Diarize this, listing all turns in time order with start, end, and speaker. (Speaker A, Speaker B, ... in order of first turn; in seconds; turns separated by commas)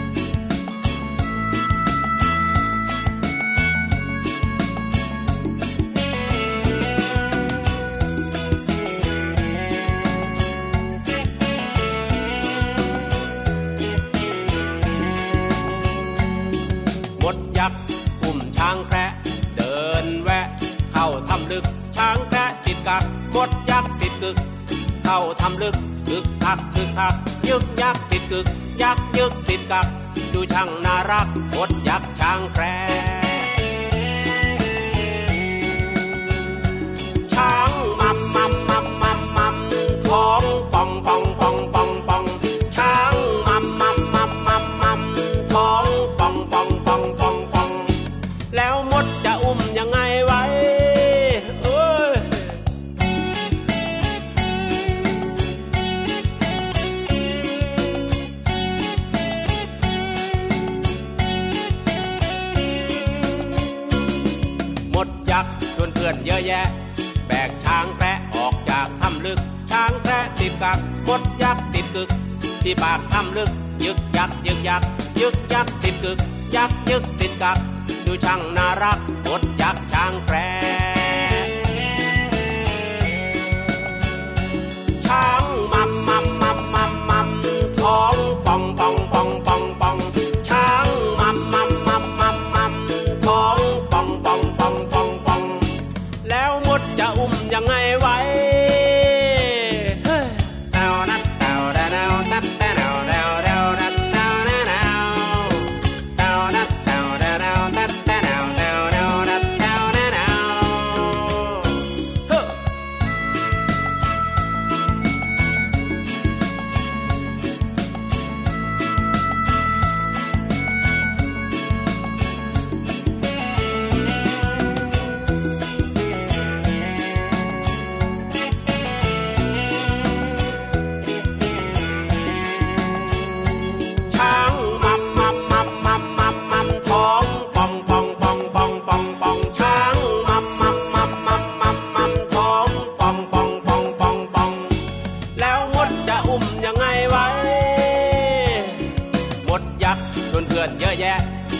Speaker A: 17.2-24.4, Speaker A: 25.0-33.5, Speaker A: 37.2-47.9, Speaker A: 48.5-52.5, Speaker A: 64.9-81.5, Speaker A: 85.0-95.7, Speaker A: 96.2-112.6, Speaker A: 134.1-144.7, Speaker A: 145.3-148.8, Speaker A: 149.4-151.2